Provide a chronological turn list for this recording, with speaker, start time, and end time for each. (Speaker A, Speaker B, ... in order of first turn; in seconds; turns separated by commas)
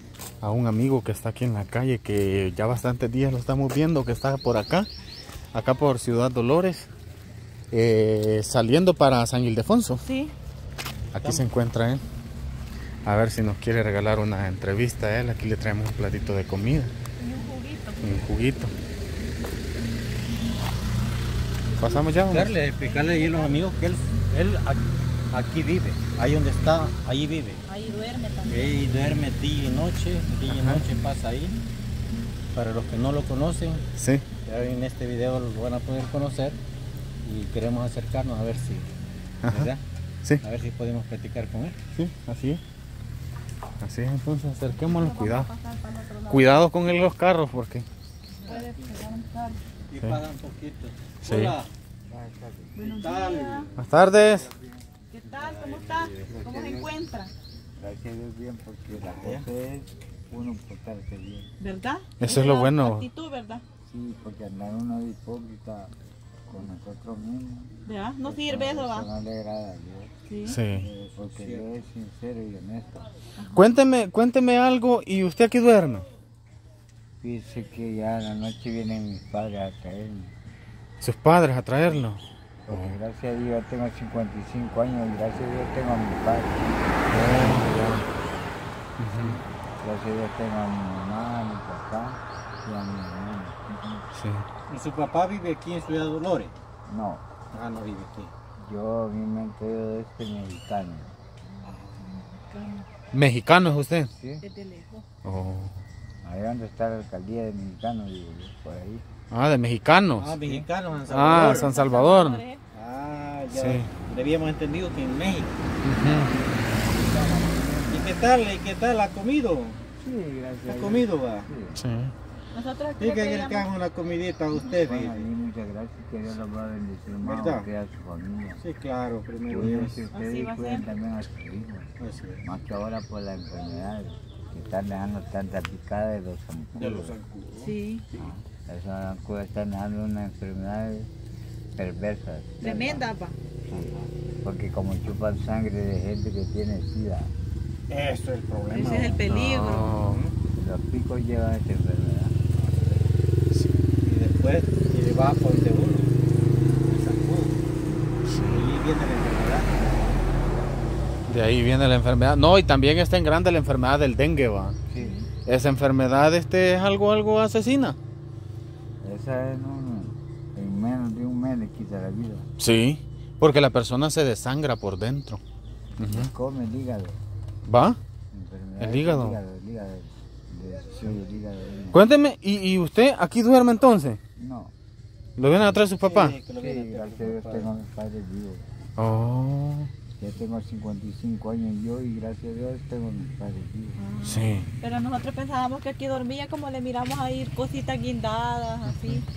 Speaker A: 0.4-4.9, Speaker A: 5.5-6.9, Speaker A: 7.7-10.0, Speaker B: 10.0-10.4, Speaker A: 11.2-12.0, Speaker C: 11.2-11.5, Speaker A: 13.1-16.9, Speaker B: 17.2-18.3, Speaker A: 18.0-18.7, Speaker A: 21.8-22.6, Speaker C: 22.3-27.6, Speaker B: 22.7-23.7, Speaker B: 27.7-28.8, Speaker C: 28.4-31.6, Speaker A: 30.5-30.8, Speaker C: 32.5-33.8, Speaker A: 34.0-34.2, Speaker C: 34.4-36.6, Speaker C: 37.2-38.9, Speaker A: 39.5-39.7, Speaker C: 39.5-39.8, Speaker C: 40.4-41.8, Speaker A: 41.9-42.6, Speaker A: 43.8-45.5, Speaker B: 44.7-46.6, Speaker A: 46.3-47.9, Speaker B: 48.4-49.6, Speaker C: 48.5-48.7, Speaker C: 49.9-51.7, Speaker A: 51.2-51.6, Speaker D: 52.1-52.8, Speaker B: 52.8-53.7, Speaker C: 52.8-53.7, Speaker A: 53.8-54.5, Speaker D: 53.8-54.9, Speaker B: 55.1-57.3, Speaker C: 55.3-56.3, Speaker D: 56.2-56.9, Speaker D: 57.8-61.5, Speaker C: 59.0-59.5, Speaker B: 61.6-63.6, Speaker A: 62.2-63.1, Speaker D: 63.9-65.9, Speaker D: 66.5-70.1, Speaker B: 67.8-69.1, Speaker B: 70.3-70.6, Speaker A: 70.5-70.9, Speaker C: 70.8-71.7, Speaker D: 71.2-73.1, Speaker B: 73.4-73.6, Speaker A: 73.5-76.0, Speaker D: 77.2-80.3, Speaker A: 81.0-83.0, Speaker D: 82.7-87.7, Speaker A: 87.1-88.1, Speaker A: 89.0-89.4, Speaker D: 89.2-93.6, Speaker A: 94.1-94.5, Speaker C: 94.7-96.5, Speaker D: 96.9-97.2, Speaker C: 97.5-98.3, Speaker D: 98.6-101.2, Speaker B: 101.5-102.9, Speaker A: 103.1-104.1, Speaker D: 104.1-104.5, Speaker B: 104.4-105.1, Speaker A: 105.2-105.8, Speaker D: 106.2-109.0, Speaker A: 109.3-110.4, Speaker C: 110.2-111.8, Speaker A: 111.0-112.4, Speaker B: 111.3-112.6, Speaker C: 112.7-115.6, Speaker A: 113.5-113.9, Speaker A: 115.8-116.4, Speaker D: 116.8-118.2, Speaker C: 117.9-119.8, Speaker D: 120.0-121.8, Speaker C: 120.7-121.5, Speaker A: 121.8-122.1, Speaker B: 122.5-123.7, Speaker C: 123.0-125.3, Speaker D: 124.7-128.6, Speaker C: 127.2-127.7, Speaker C: 128.6-130.0, Speaker D: 129.5-137.2, Speaker B: 130.1-130.9, Speaker C: 132.0-132.5, Speaker C: 136.8-137.8, Speaker B: 137.6-138.1, Speaker D: 138.2-141.1, Speaker D: 141.8-143.1, Speaker B: 142.6-143.4, Speaker D: 143.6-147.3, Speaker C: 147.9-150.3, Speaker B: 148.7-150.0, Speaker D: 148.8-149.2, Speaker A: 149.3-150.2, Speaker D: 150.5-152.4, Speaker C: 152.6-153.1, Speaker A: 153.5-153.8, Speaker C: 154.0-156.1, Speaker C: 156.9-157.6, Speaker A: 158.2-158.7, Speaker C: 158.4-159.9, Speaker A: 161.3-164.8, Speaker B: 164.9-165.3, Speaker A: 165.5-168.0, Speaker D: 169.0-172.5, Speaker A: 172.6-175.4, Speaker D: 176.0-177.2, Speaker A: 176.0-176.3, Speaker A: 177.7-178.0, Speaker D: 178.3-182.1, Speaker A: 178.8-179.4, Speaker A: 181.9-184.2, Speaker D: 184.4-184.7, Speaker A: 185.4-186.4, Speaker C: 186.0-187.7, Speaker D: 186.6-188.7, Speaker A: 189.0-189.9, Speaker D: 190.2-194.0, Speaker B: 194.0-199.2, Speaker A: 194.2-194.7, Speaker A: 198.9-199.2